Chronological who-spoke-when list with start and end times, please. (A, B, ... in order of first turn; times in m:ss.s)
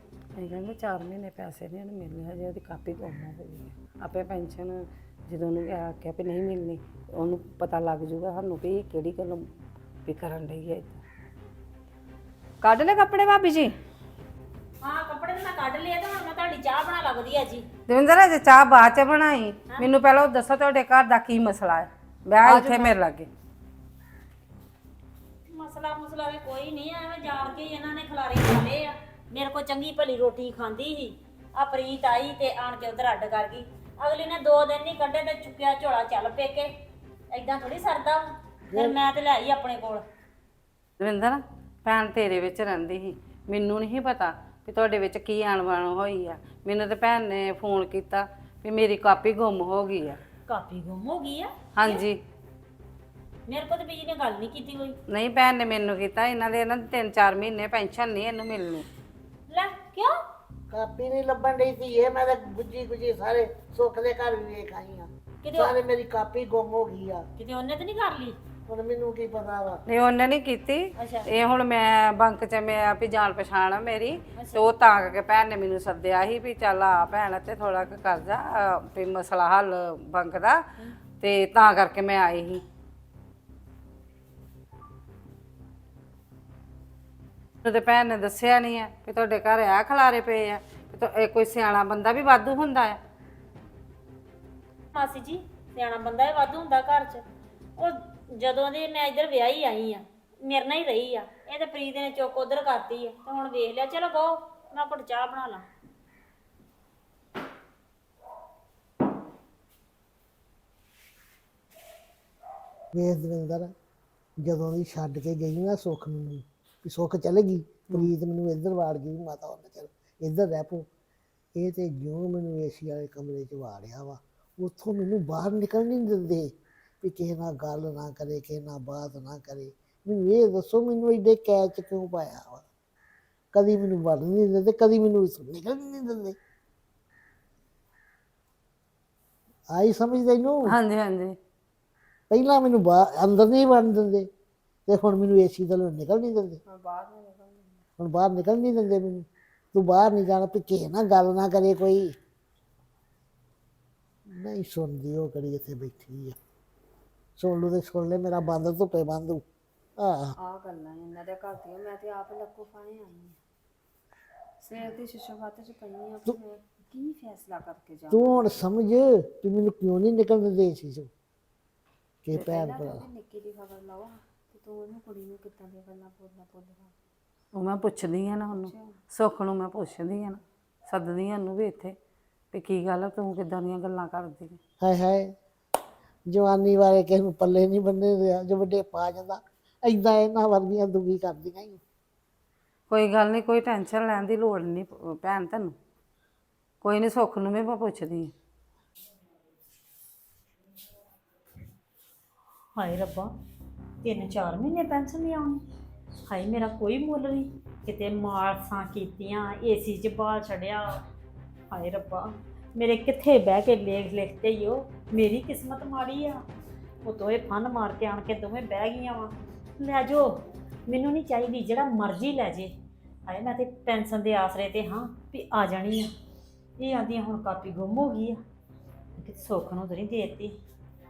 0:00.4-0:09.5 A
0:10.1-0:11.0 A
0:12.6-0:13.8 B
0:14.8-0:17.6 C
0:17.9-0:23.3 A
0:22.4-0:22.9 B
0:25.5-0:36.7 C
0:37.3-0:40.0 C
0:38.7-0:39.0 D
0:41.0-0:50.2 A
0:50.5-0:52.0 C
0:51.8-0:52.2 A
0:53.5-0:55.0 C
0:55.1-0:58.9 A
0:59.5-1:00.1 C
1:00.7-1:07.3 D
1:05.4-1:05.7 C
1:07.4-1:08.4 C
1:08.7-1:09.8 D
1:09.9-1:20.6 A
1:11.0-1:11.2 C
1:14.4-1:14.7 C
1:21.2-1:22.6 A
1:27.6-1:33.0 A
1:34.9-1:37.2 C
1:37.8-1:45.6 C
1:52.9-1:53.7 D
1:54.4-2:00.9 D
2:01.6-2:12.6 D
2:13.5-2:16.4 D
2:19.7-2:20.7 D
2:20.7-2:21.4 A
2:22.3-2:24.3 D
2:24.9-2:26.6 D
2:26.7-2:27.8 B
2:28.0-2:32.1 D
2:34.3-2:36.4 D
2:37.4-2:39.4 D
2:40.0-2:40.4 D
2:40.4-2:43.4 B
2:44.6-2:48.5 B
2:48.1-2:51.1 D
2:52.2-2:53.0 D
2:52.4-2:56.9 B
2:57.5-3:02.0 A
2:58.5-2:59.0 B
3:02.5-3:04.6 A
3:04.8-3:05.3 D
3:06.3-3:11.8 D
3:12.9-3:15.8 A
3:16.8-3:18.3 A
3:22.8-3:23.3 C
3:24.0-3:25.6 C
3:26.3-3:31.0 C
3:31.7-3:36.4 C
3:37.0-3:42.7 C
3:43.3-3:46.1 C
3:46.8-3:48.4 C
3:49.2-3:50.6 C